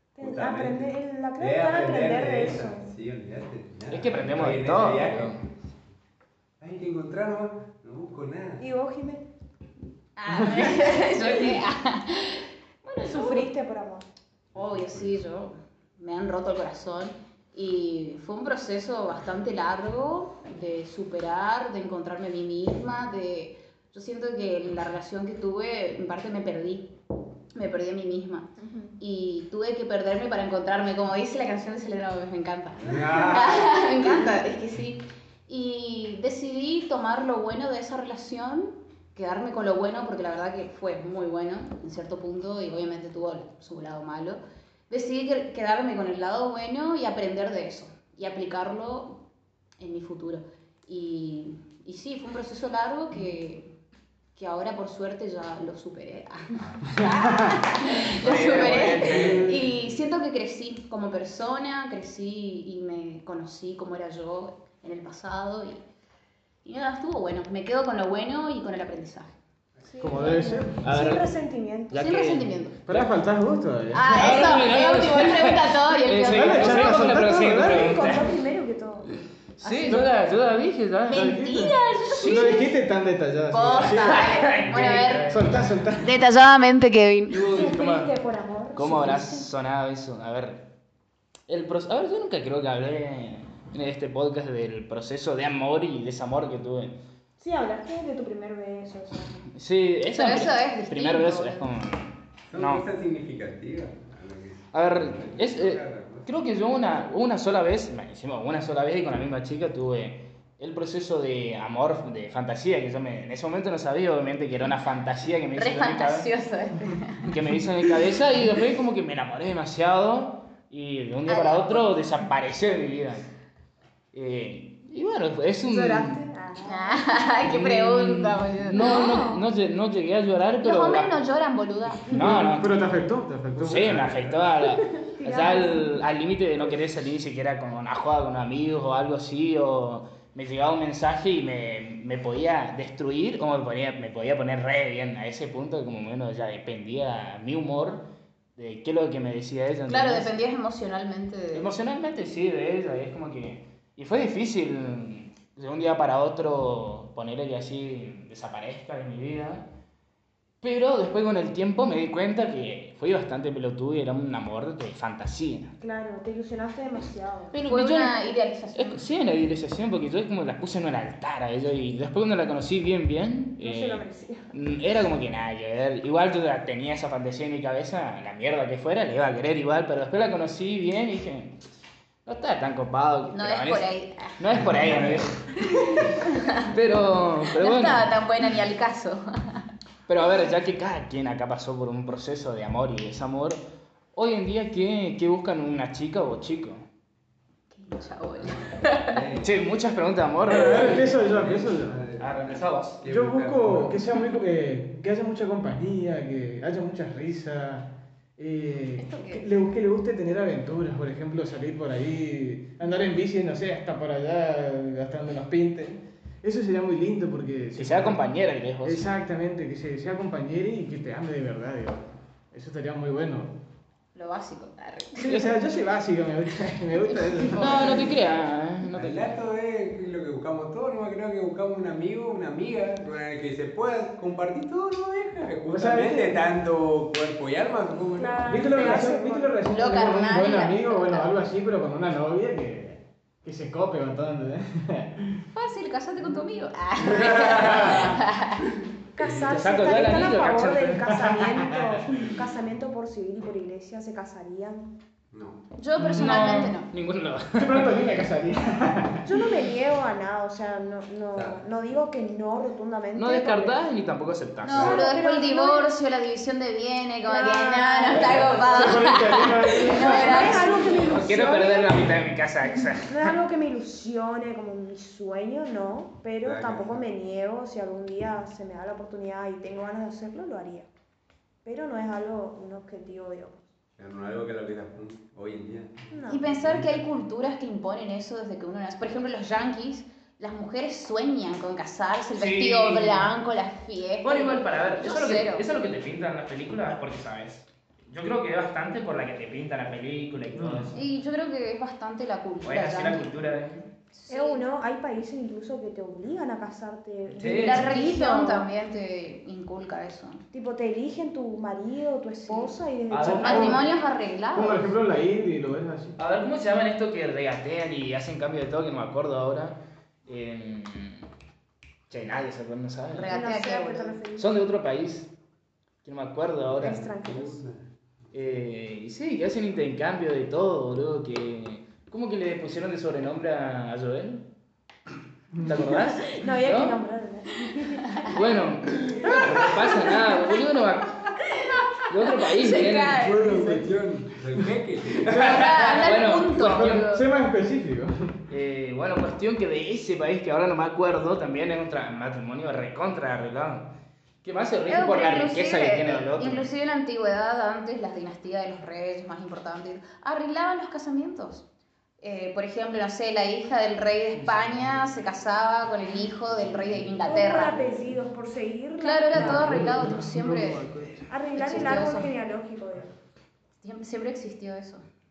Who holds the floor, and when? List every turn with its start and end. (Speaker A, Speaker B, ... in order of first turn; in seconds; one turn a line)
Speaker A: 0.1-2.9
Speaker B: 0.2-5.6
Speaker C: 3.9-5.5
Speaker B: 6.6-8.6
Speaker A: 8.6-9.3
Speaker D: 10.2-13.5
Speaker A: 13.0-14.1
Speaker B: 14.5-15.2
Speaker D: 14.6-26.9
Speaker D: 27.6-49.2
Speaker A: 28.6-28.9
Speaker B: 32.8-33.8
Speaker D: 49.8-53.7
Speaker D: 54.4-65.8
Speaker E: 56.9-57.6
Speaker C: 58.2-59.5
Speaker E: 58.4-59.7
Speaker D: 66.6-69.3
Speaker A: 69.8-72.0
Speaker E: 70.0-70.8
Speaker C: 70.8-71.3
Speaker C: 71.9-73.1
Speaker D: 71.9-72.8
Speaker E: 72.9-74.5
Speaker D: 73.9-77.1
Speaker C: 74.1-78.3
Speaker E: 76.3-78.2
Speaker A: 77.1-79.1
Speaker C: 79.6-81.3
Speaker D: 79.6-80.0
Speaker D: 81.1-82.8
Speaker E: 81.1-86.2
Speaker C: 82.1-82.5
Speaker D: 83.5-85.4
Speaker C: 84.0-85.6
Speaker D: 86.0-87.6
Speaker C: 87.3-88.1
Speaker A: 87.5-89.5
Speaker C: 88.8-90.7
Speaker C: 91.5-97.0
Speaker A: 97.4-99.5
Speaker C: 99.5-102.9
Speaker D: 100.1-101.7
Speaker B: 102.5-106.3
Speaker C: 104.7-116.3
Speaker D: 115.5-117.3
Speaker C: 117.2-123.3
Speaker D: 121.3-122.2
Speaker C: 124.1-126.2
Speaker A: 125.6-127.2
Speaker D: 126.6-129.4
Speaker C: 127.5-131.1
Speaker A: 128.8-129.2
Speaker D: 130.6-132.2
Speaker C: 132.1-132.8
Speaker E: 132.1-134.3
Speaker C: 133.6-150.3
Speaker A: 134.7-136.0
Speaker D: 149.9-151.7
Speaker C: 151.5-159.7
Speaker C: 160.6-165.7
Speaker A: 165.8-167.5
Speaker C: 167.5-168.2
Speaker D: 167.5-169.0
Speaker C: 168.7-181.6
Speaker A: 173.6-174.5
Speaker C: 182.2-183.9
Speaker D: 183.3-184.7
Speaker C: 184.4-188.2
Speaker D: 185.6-186.7
Speaker D: 187.5-189.7
Speaker C: 190.1-196.8
Speaker D: 197.7-199.2
Speaker B: 198.4-199.6
Speaker C: 199.4-201.1
Speaker E: 200.5-202.0
Speaker B: 201.0-204.0
Speaker C: 202.2-203.0
Speaker E: 203.1-218.2
Speaker D: 209.0-209.4
Speaker C: 217.8-219.1
Speaker E: 218.8-223.5
Speaker D: 224.2-225.5
Speaker E: 225.2-228.0
Speaker D: 227.0-228.1
Speaker C: 227.6-229.3
Speaker B: 228.9-239.1
Speaker E: 235.7-236.4
Speaker A: 238.2-239.6
Speaker E: 238.5-245.5
Speaker D: 239.7-241.3
Speaker D: 245.6-248.7
Speaker B: 247.1-247.9
Speaker E: 247.6-248.1
Speaker A: 249.2-254.9
Speaker C: 249.3-251.3
Speaker E: 251.3-251.7
Speaker B: 255.3-255.6
Speaker D: 255.8-256.9
Speaker E: 256.0-256.5
Speaker C: 256.0-257.9
Speaker E: 257.6-259.4
Speaker A: 259.2-263.8
Speaker B: 261.3-261.6
Speaker C: 263.1-265.0
Speaker D: 264.6-271.5
Speaker A: 264.7-265.9
Speaker A: 267.3-272.2
Speaker B: 268.2-268.5
Speaker E: 268.7-270.7
Speaker C: 270.7-273.4
Speaker A: 273.1-280.9
Speaker B: 276.4-277.0
Speaker A: 281.6-283.7
Speaker B: 284.0-287.0
Speaker A: 286.1-286.4
Speaker D: 286.3-295.6
Speaker C: 292.4-293.3
Speaker C: 294.2-301.0
Speaker E: 300.6-300.9
Speaker D: 300.9-303.3
Speaker C: 302.6-303.9
Speaker D: 304.1-304.6
Speaker A: 304.3-308.7
Speaker C: 307.4-307.9
Speaker D: 307.4-310.4
Speaker A: 310.5-313.8
Speaker D: 312.5-312.7
Speaker C: 313.1-313.8
Speaker E: 313.2-313.9
Speaker D: 313.4-314.9
Speaker E: 314.5-316.2
Speaker C: 316.2-321.3
Speaker C: 322.1-323.4
Speaker D: 323.1-324.2
Speaker A: 323.3-324.5
Speaker C: 324.4-325.3
Speaker C: 326.0-327.1
Speaker A: 326.8-327.6
Speaker B: 327.2-327.8
Speaker C: 328.3-334.5
Speaker E: 335.5-335.8
Speaker C: 335.6-337.0
Speaker A: 336.3-338.4
Speaker C: 338.3-341.2
Speaker A: 339.3-339.8
Speaker D: 339.5-340.5
Speaker D: 341.4-343.9
Speaker C: 342.1-343.2
Speaker B: 343.1-345.9
Speaker D: 345.3-347.2
Speaker C: 345.4-347.1
Speaker E: 346.6-348.3
Speaker C: 348.5-353.9
Speaker C: 354.4-356.7
Speaker D: 354.9-361.6
Speaker D: 362.2-368.0
Speaker C: 364.4-365.1
Speaker A: 367.3-369.7
Speaker D: 369.0-370.9
Speaker C: 369.4-371.3
Speaker E: 369.5-370.5
Speaker A: 371.3-373.1
Speaker D: 371.6-372.3
Speaker D: 373.8-375.0